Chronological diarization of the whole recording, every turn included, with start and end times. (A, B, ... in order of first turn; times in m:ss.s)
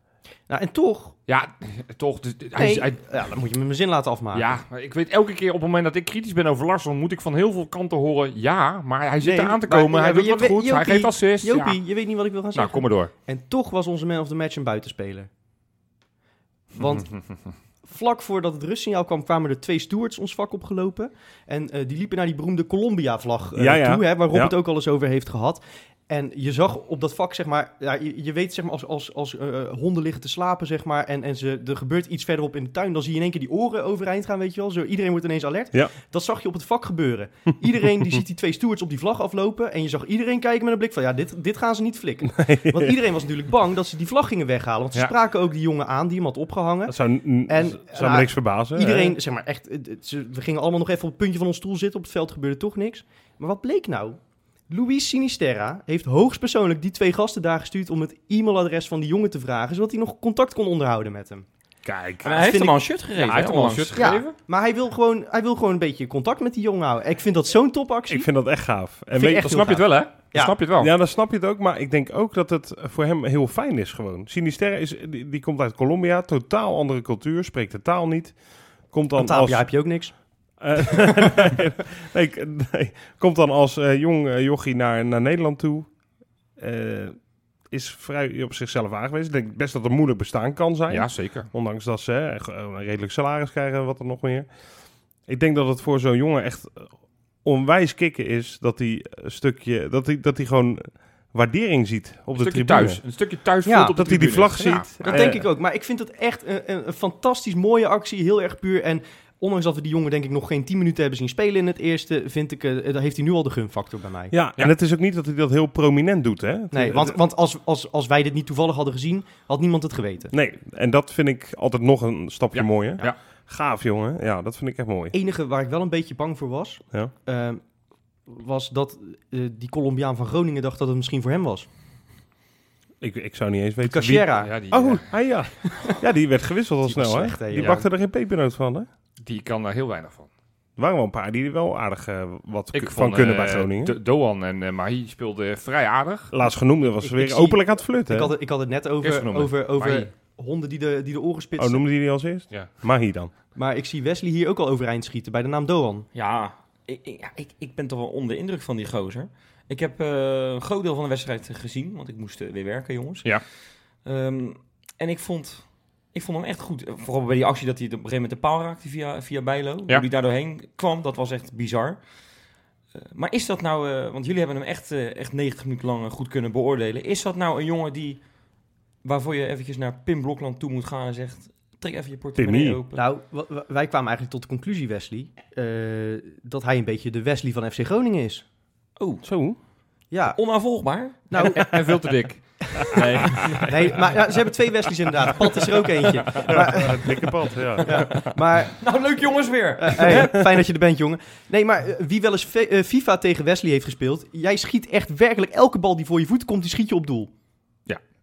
0:00.5-0:01.1 A
0:01.3-0:03.0 B
0:02.6-0:04.6 A
0:04.3-0:11.8 B
0:09.2-0:15.3 A
0:12.5-0:13.1 B
0:16.7-0:17.1 A
0:17.8-1:01.5 A
0:23.6-0:24.5 C
0:42.3-0:42.9 C
0:46.9-0:49.2 C
1:01.8-1:02.6 B
1:02.2-1:04.1 D
1:02.3-1:02.8 A
1:03.2-1:04.3 B
1:04.0-1:08.3 A
1:08.1-1:09.8 C
1:09.2-1:10.5 A
1:09.2-1:10.9 B
1:10.8-1:18.4 C
1:18.9-1:19.7 C
1:19.2-1:20.2 A
1:20.6-1:25.9 C
1:20.9-1:21.5 A
1:26.6-1:27.2 C
1:27.7-1:34.5 C
1:30.9-1:31.5 B
1:35.2-1:36.9 C
1:37.4-1:43.0 C
1:42.4-1:45.3 B
1:43.6-1:44.0 A
1:44.0-1:45.4 C
1:45.0-1:54.3 A
1:54.3-1:57.2 C
1:56.7-2:00.3 A
2:00.3-2:05.1 C
2:02.5-2:03.2 B
2:05.1-2:07.6 A
2:08.3-2:11.7 A
2:13.0-2:18.9 C
2:13.8-2:14.5 A
2:14.4-2:15.1 B
2:16.8-2:17.8 A
2:17.6-2:17.8 B
2:19.2-2:20.3 B
2:20.8-2:24.0 C
2:22.7-2:26.3 B
2:26.3-2:28.3 C
2:27.0-2:31.8 A
2:29.0-2:30.1 B
2:31.6-2:33.3 C
2:33.5-2:36.1 A
2:36.1-2:43.4 D
2:44.0-2:52.0 D
2:52.9-2:58.2 D
2:59.0-3:03.0 D
3:02.4-3:02.8 C
3:02.9-3:08.4 A
3:09.0-3:09.3 D
3:09.2-3:09.6 C
3:10.1-3:10.4 A
3:10.4-3:11.3 D
3:11.3-3:11.8 A
3:11.4-3:14.2 B
3:12.6-3:13.0 A
3:13.2-3:13.6 D
3:13.5-3:17.3 A
3:16.5-3:18.0 C
3:17.8-3:20.6 D
3:17.8-3:18.8 A
3:19.8-3:27.3 A